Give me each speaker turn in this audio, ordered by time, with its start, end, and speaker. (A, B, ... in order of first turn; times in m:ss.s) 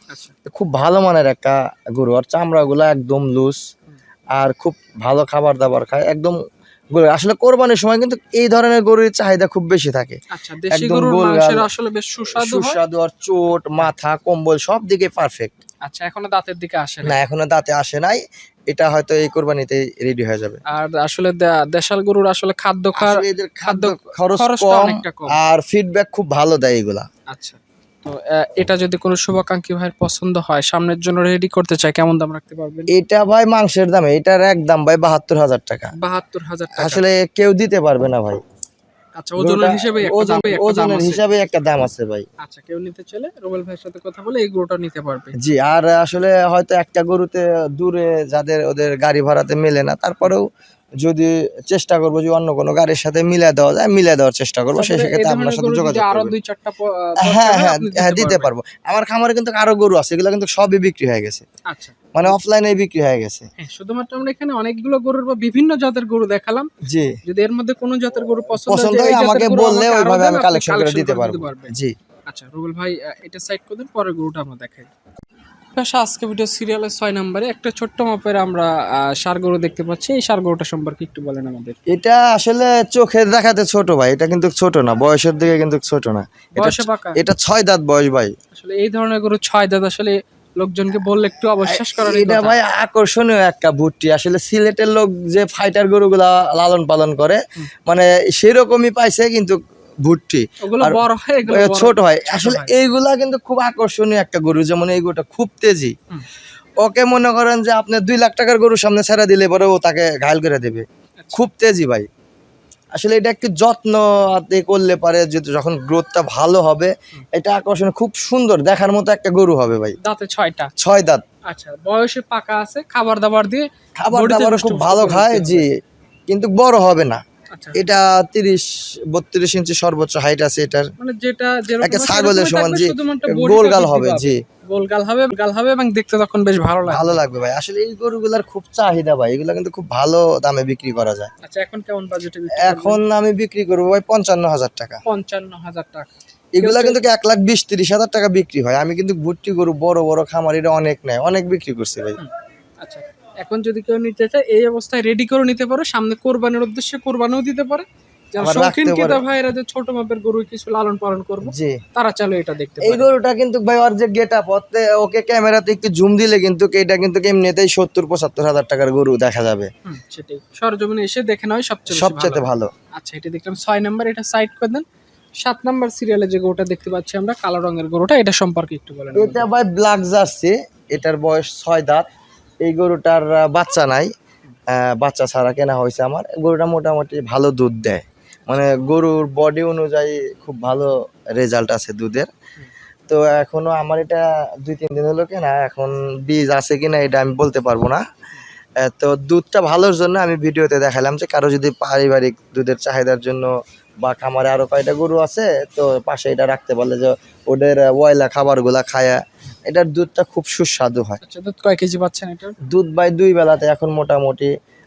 0:00.5-0:03.6 A
0:04.4-0:06.4 A
0:07.0-0:10.2 A
0:10.3-0:12.8 B
0:10.7-0:11.7 A
0:12.3-0:15.5 A
0:15.8-0:17.2 B
0:17.0-0:20.6 A
0:20.7-0:25.5 B
0:23.0-0:27.1 A
0:27.3-0:32.9 B
0:32.9-0:35.9 A
0:36.0-0:37.0 B
0:36.7-0:38.4 A
0:39.2-0:41.2 B
0:39.4-0:42.3 A
0:42.4-0:45.3 B
0:45.4-0:50.5 A
0:51.0-0:56.3 A
0:54.8-0:58.5 B
0:57.2-1:01.4 A
1:01.7-1:02.4 B
1:02.1-1:03.4 A
1:03.6-1:06.7 B
1:06.9-1:07.2 A
1:07.2-1:11.8 B
1:08.6-1:12.0 A
1:12.3-1:14.9 B
1:15.8-1:21.8 B
1:21.9-1:28.3 A
1:26.6-1:27.2 B
1:28.5-1:32.6 B
1:31.7-1:45.9 A
1:40.6-1:42.7 B
1:46.8-1:52.1 A
1:51.2-1:51.4 B
1:53.0-2:00.0 A
2:00.0-2:00.7 B
2:00.8-2:01.2 A
2:01.5-2:05.7 B
2:04.0-2:05.7 A
2:06.3-2:07.2 A
2:07.5-2:07.8 B
2:07.8-2:10.9 A
2:11.0-2:17.2 B
2:11.8-2:14.4 A
2:16.9-2:21.3 A
2:21.4-2:23.0 B
2:22.6-2:25.0 A
2:25.0-2:27.0 B
2:26.6-2:32.2 A
2:32.2-2:43.1 B
2:38.4-2:39.2 A
2:41.4-2:41.8 A
2:42.8-2:49.7 A
2:49.9-2:54.8 B
2:51.9-2:52.7 A
2:55.4-2:59.5 B
2:59.1-3:02.1 A
3:02.6-3:04.1 A
3:04.7-3:12.3 A
3:13.1-3:18.0 A
3:18.8-3:23.5 A
3:24.0-3:31.2 A
3:31.2-3:32.6 B
3:32.7-3:34.5 A